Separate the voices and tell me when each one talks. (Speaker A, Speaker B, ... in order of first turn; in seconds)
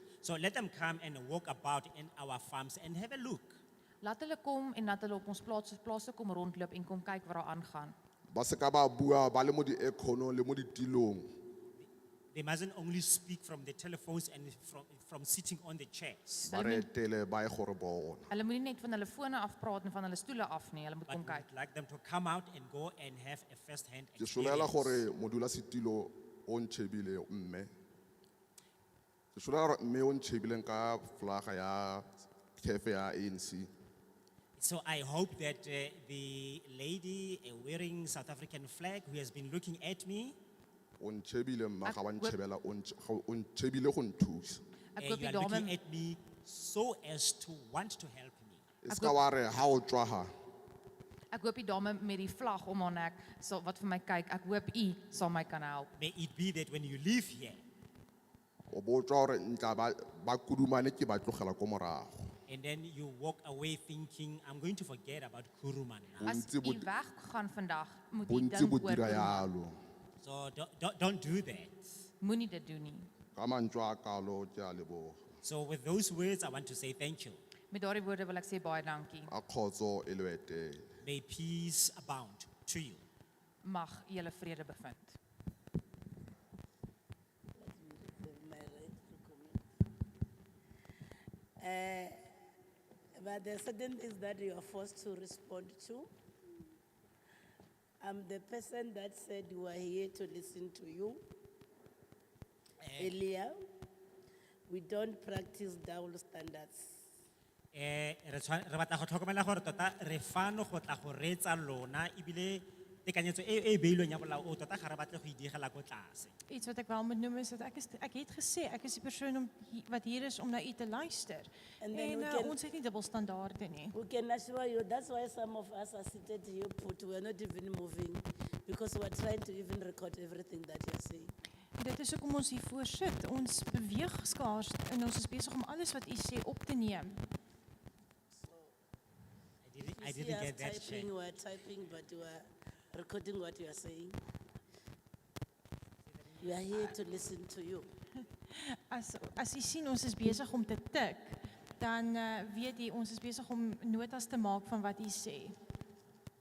Speaker A: 0.2-3.6, 11.8-16.5, 21.1-25.0, 34.6-40.4, 45.0-48.6, 56.0-57.6, 62.5-66.4, 70.2-71.9, 75.4-77.4, 81.0-83.0, 102.8-103.2, 107.7-116.3, 139.6-141.1, 146.3-146.9
Speaker B: 4.0-8.0, 16.5-16.9, 18.3-21.5, 41.9-42.4, 45.0-45.8, 48.9-49.2, 51.3-55.9, 66.2-69.5, 72.2-73.1, 77.7-79.3, 83.6-85.2
Speaker C: 8.3-11.3, 16.5-18.3, 24.2-27.7, 29.4-33.7, 41.0-44.6, 48.8-50.3, 58.7-62.3, 66.2-66.9, 68.2-69.7, 73.3-75.2, 79.3-80.9
Speaker D: 87.6-89.6, 91.6-92.3, 93.2-96.1, 98.0-101.2, 103.0-103.6, 104.7-106.9, 121.8-122.6, 123.9-131.3, 138.3-138.7, 139.8-144.2, 146.4-147.9
Speaker E: 116.5-124.0, 131.8-137.2, 148.5-155.6